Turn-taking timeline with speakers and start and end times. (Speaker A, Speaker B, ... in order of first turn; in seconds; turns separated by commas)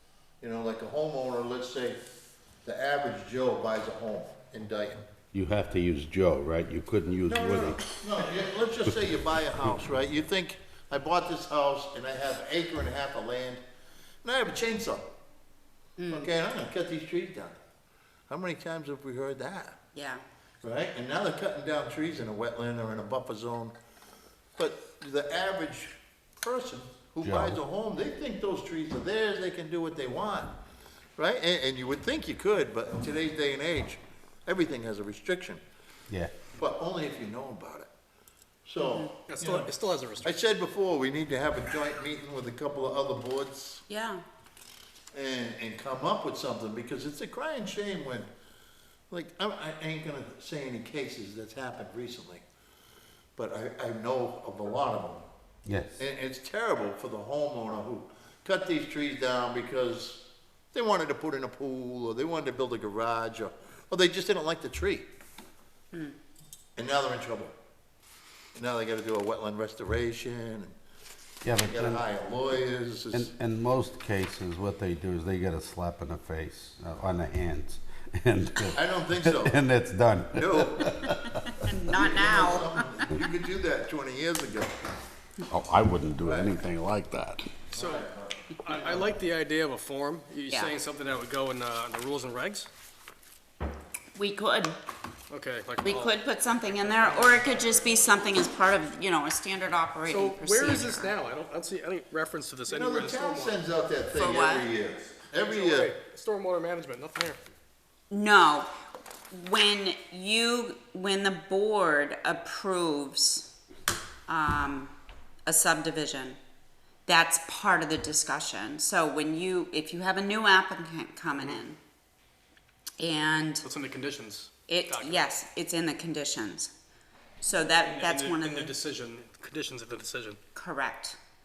Speaker A: 0.4-2.0, Speaker A: 2.6-5.0, Speaker B: 5.3-7.8, Speaker A: 7.3-13.6, Speaker A: 14.2-15.1, Speaker C: 16.0-16.3, Speaker A: 16.1-17.6, Speaker A: 18.3-19.8, Speaker C: 19.9-20.2, Speaker A: 20.6-23.7, Speaker A: 24.6-30.5, Speaker B: 27.2-27.6, Speaker A: 31.2-35.6, Speaker A: 36.5-37.9, Speaker A: 38.6-39.7, Speaker C: 38.8-39.1, Speaker D: 39.3-40.3, Speaker A: 40.2-43.8, Speaker C: 43.9-44.2, Speaker A: 45.1-48.3, Speaker A: 49.1-52.4, Speaker A: 53.4-55.2, Speaker B: 55.7-56.0, Speaker A: 56.0-65.1, Speaker A: 66.8-67.5, Speaker A: 68.5-70.7, Speaker B: 71.4-72.0, Speaker A: 71.5-73.3, Speaker B: 73.1-81.5, Speaker A: 78.7-79.6, Speaker A: 80.3-81.0, Speaker C: 81.6-82.8, Speaker A: 81.9-84.8, Speaker B: 85.5-87.4, Speaker A: 86.2-86.5, Speaker D: 87.7-88.0, Speaker A: 87.7-88.9, Speaker D: 88.6-92.7, Speaker C: 90.5-90.7, Speaker C: 94.1-94.8, Speaker D: 95.3-96.1, Speaker C: 95.8-101.1, Speaker D: 96.8-97.7, Speaker D: 100.1-103.6, Speaker A: 102.7-105.9, Speaker C: 104.1-104.7, Speaker D: 105.4-107.5, Speaker C: 108.1-108.7, Speaker C: 109.3-113.5, Speaker C: 114.3-114.9, Speaker C: 115.5-116.4, Speaker C: 117.0-121.8, Speaker C: 123.0-123.6, Speaker D: 123.6-125.3, Speaker C: 124.7-126.7, Speaker C: 127.4-128.7, Speaker D: 127.8-130.4, Speaker C: 130.5-131.2